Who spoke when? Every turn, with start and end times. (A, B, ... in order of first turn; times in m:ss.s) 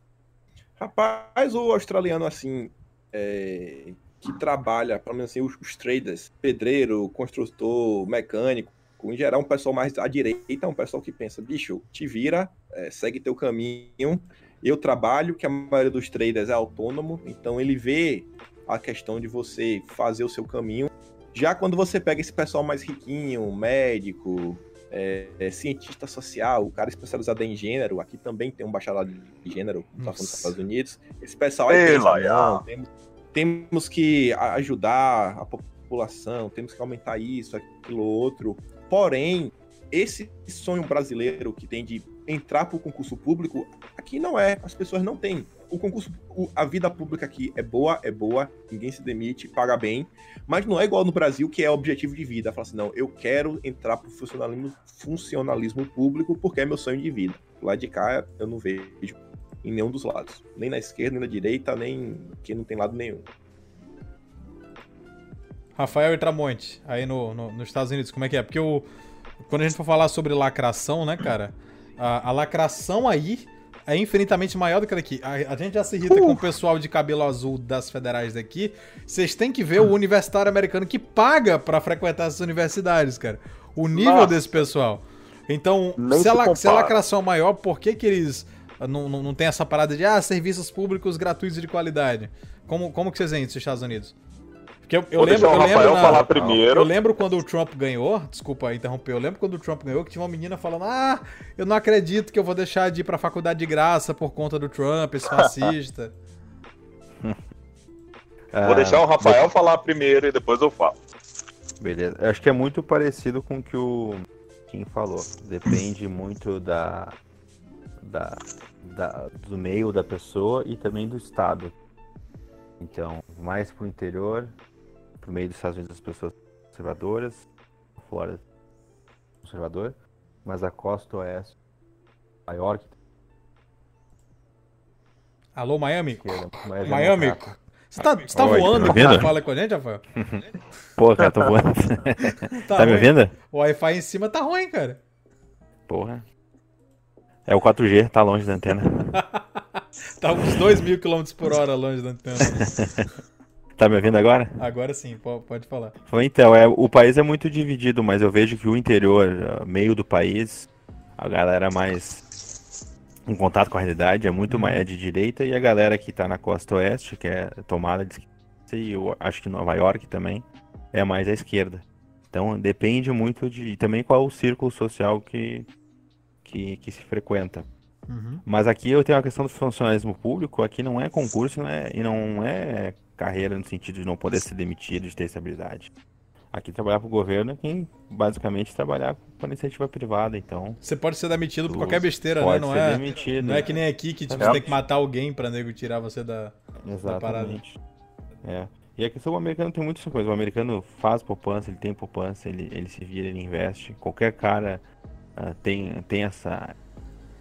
0:00.8-1:03.2 A
0:30.0-0:30.6 B
0:31.7-0:32.6 C
1:05.8-1:08.9 B
1:09.4-1:34.1 B
1:16.1-1:16.4 C
1:23.9-1:24.6 C
1:26.0-1:27.0 C
1:34.9-1:46.1 B
1:35.2-1:36.9 C
1:35.8-1:36.6 D
1:48.5-1:49.5 D
1:48.6-1:50.9 C
1:51.8-1:57.2 D
1:58.0-2:01.7 D
2:02.8-2:04.5 D
2:05.2-2:07.4 D
2:08.0-2:08.4 D
2:09.4-2:11.5 D
2:12.5-2:12.9 D
2:15.6-2:20.0 B
2:16.2-2:17.5 D
2:18.2-2:19.3 D
2:20.1-2:20.4 D
2:21.0-2:23.3 D
2:22.5-2:25.0 B
2:25.9-2:26.2 D
2:27.4-2:29.2 D
2:29.1-2:32.7 B
2:32.4-2:33.1 D
2:33.8-2:34.6 D
2:34.6-2:35.9 B
2:36.0-2:42.2 D
2:43.3-2:55.7 D
2:44.5-2:44.8 B
2:56.4-2:57.7 D
2:58.1-2:58.4 B
2:58.4-3:05.9 D
3:06.5-3:10.8 D
3:10.8-3:17.6 B
3:11.7-3:14.8 D
3:16.8-3:17.8 D
3:18.4-3:24.8 D
3:25.4-3:26.8 D